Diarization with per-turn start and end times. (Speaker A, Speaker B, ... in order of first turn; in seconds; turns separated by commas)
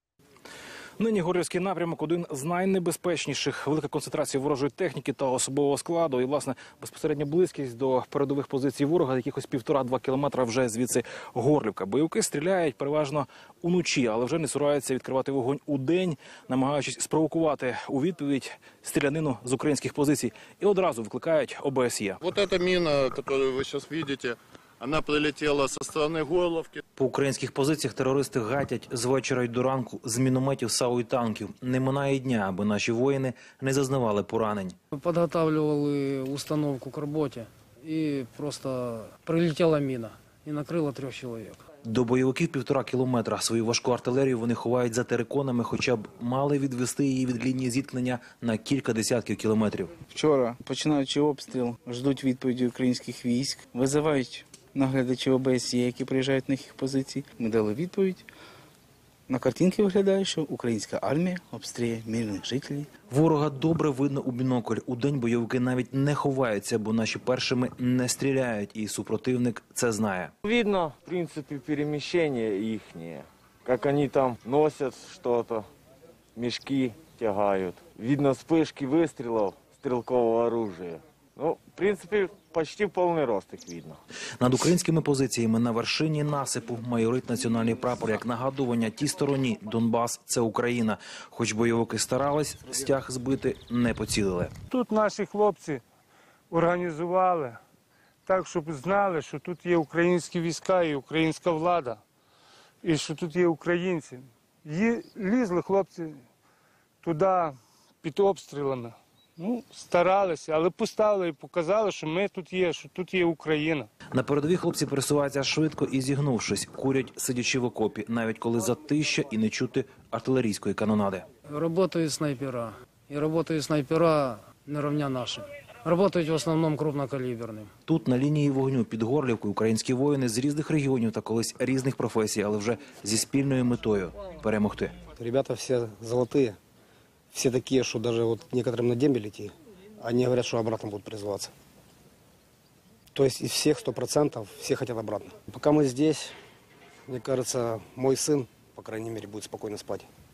Speaker A: 1.0-22.2, Speaker B: 22.2-26.8, Speaker C: 27.0-34.8, Speaker D: 34.9-41.6, Speaker C: 41.8-49.9, Speaker E: 50.1-58.2, Speaker E: 59.3-62.9, Speaker C: 63.1-70.3, Speaker F: 70.4-75.7, Speaker F: 76.3-84.0, Speaker C: 84.4-94.5, Speaker G: 94.7-95.8, Speaker G: 96.5-97.6, Speaker G: 98.3-102.0, Speaker G: 102.8-106.2, Speaker G: 107.0-113.9, Speaker C: 114.1-121.2, Speaker D: 121.5-127.7, Speaker C: 127.9-134.9, Speaker H: 135.2-136.6, Speaker H: 137.3-141.5, Speaker H: 143.1-146.3, Speaker H: 147.1-150.1